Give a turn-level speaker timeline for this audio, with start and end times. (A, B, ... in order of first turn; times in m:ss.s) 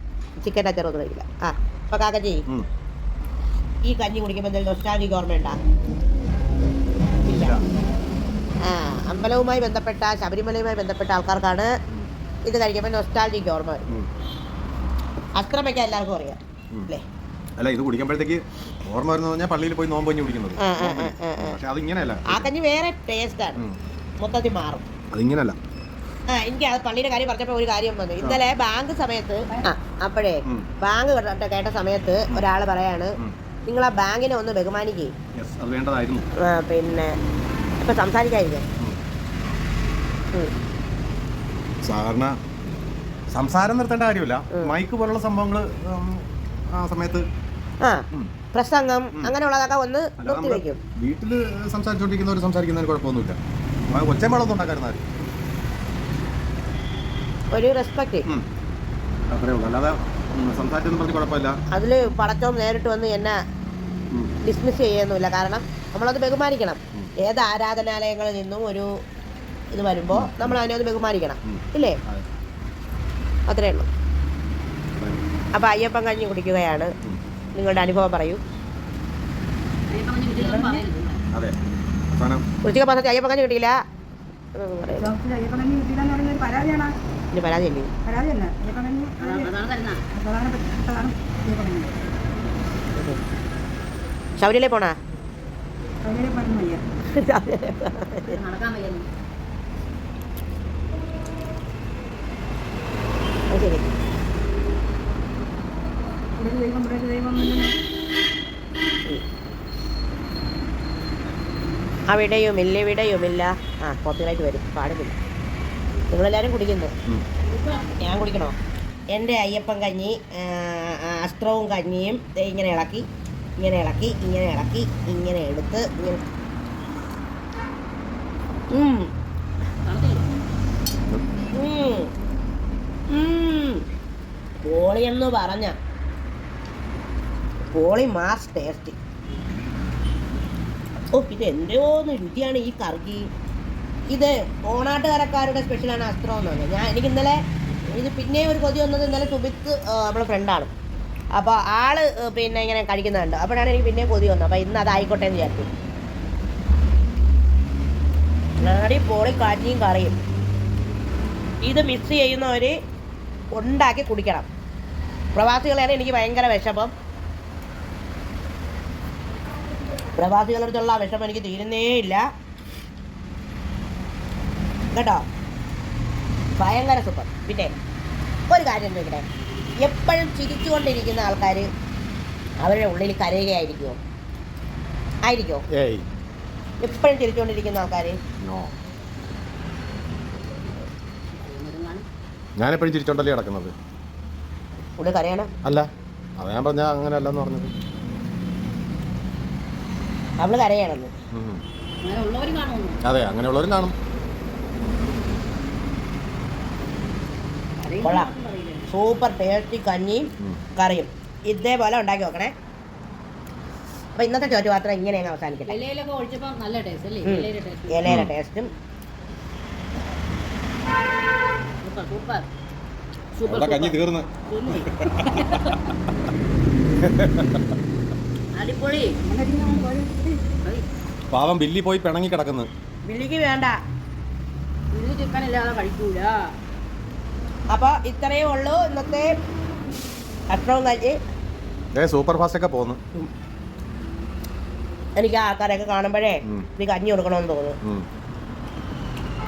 0:00.4-0:02.4 A
0:03.8-0:05.6 A
0:07.2-0:07.6 A
0:07.3-0:07.6 B
0:08.6-0:11.7 A
0:12.4-0:14.0 A
0:15.4-0:17.0 A
0:17.6-0:22.5 B
0:20.6-0:21.6 A
0:22.3-0:23.6 A
0:24.2-0:24.8 A
0:25.1-0:25.6 B
0:26.3-0:33.1 A
0:33.6-0:35.1 A
0:35.4-0:36.3 B
0:36.4-0:37.1 A
0:37.8-0:38.6 A
0:41.8-0:42.4 B
0:43.3-0:47.2 B
0:47.8-0:50.8 A
0:50.2-0:53.4 B
0:53.9-0:55.0 B
0:57.5-0:58.3 A
0:59.3-1:01.6 B
1:01.7-1:03.4 A
1:04.4-1:08.9 A
1:09.7-1:12.0 A
1:10.1-1:10.6 B
1:11.4-1:12.2 B
1:13.5-1:13.9 A
1:14.9-1:15.2 B
1:15.5-1:16.9 A
1:17.5-1:18.4 A
1:19.9-1:21.2 C
1:20.3-1:20.8 D
1:22.1-1:22.4 B
1:22.6-1:23.7 A
1:24.6-1:25.1 A
1:25.0-1:26.9 D
1:27.3-1:27.9 A
1:28.0-1:29.5 D
1:29.2-1:30.0 C
1:30.1-1:32.0 D
1:32.9-1:33.2 A
1:34.4-1:35.0 A
1:36.0-1:36.8 D
1:37.1-1:38.4 A
1:38.2-1:39.1 C
1:43.5-1:43.8 A
1:46.4-1:47.7 D
1:52.1-1:55.1 A
1:56.1-1:56.9 A
1:57.4-1:57.8 C
1:58.0-1:58.5 A
1:59.1-2:03.0 A
2:03.6-2:06.2 A
2:08.7-2:09.1 A
2:09.8-2:10.2 C
2:11.6-2:12.1 A
2:13.1-2:13.8 A
2:14.6-2:15.8 A
2:17.7-2:18.9 A
2:21.1-2:23.3 A
2:24.1-2:27.4 A
2:27.9-2:30.7 A
2:31.3-2:35.7 A
2:38.6-2:40.2 A
2:41.6-2:42.7 A
2:43.5-2:44.5 A
2:45.3-2:46.9 A
2:50.2-2:52.2 A
2:54.9-2:55.2 A
2:56.6-2:57.7 A
2:58.5-2:59.2 A
2:59.8-3:01.6 A
3:02.6-3:04.0 A
3:05.2-3:05.6 A
3:05.7-3:06.0 B
3:06.8-3:08.2 A
3:08.4-3:08.8 B
3:11.4-3:12.0 C
3:12.6-3:13.7 B
3:15.0-3:15.5 A
3:15.6-3:17.7 B
3:20.4-3:21.1 A
3:21.3-3:21.6 B
3:22.0-3:23.0 C
3:23.0-3:23.9 B
3:27.8-3:28.9 C
3:28.0-3:28.3 A
3:28.9-3:32.5 A
3:34.2-3:35.7 A
3:35.6-3:38.1 C
3:37.2-3:38.7 A
3:38.1-3:38.3 B
3:41.8-3:42.4 C
3:43.3-3:45.9 C
3:43.5-3:45.9 B
3:47.0-3:47.7 B
3:48.5-3:49.1 C
3:49.2-3:50.4 D
3:51.3-3:52.7 B
3:53.0-3:53.8 A
3:54.9-3:56.3 C
3:57.7-3:59.3 A
4:00.5-4:01.2 A
4:01.9-4:03.0 B
4:05.2-4:07.8 A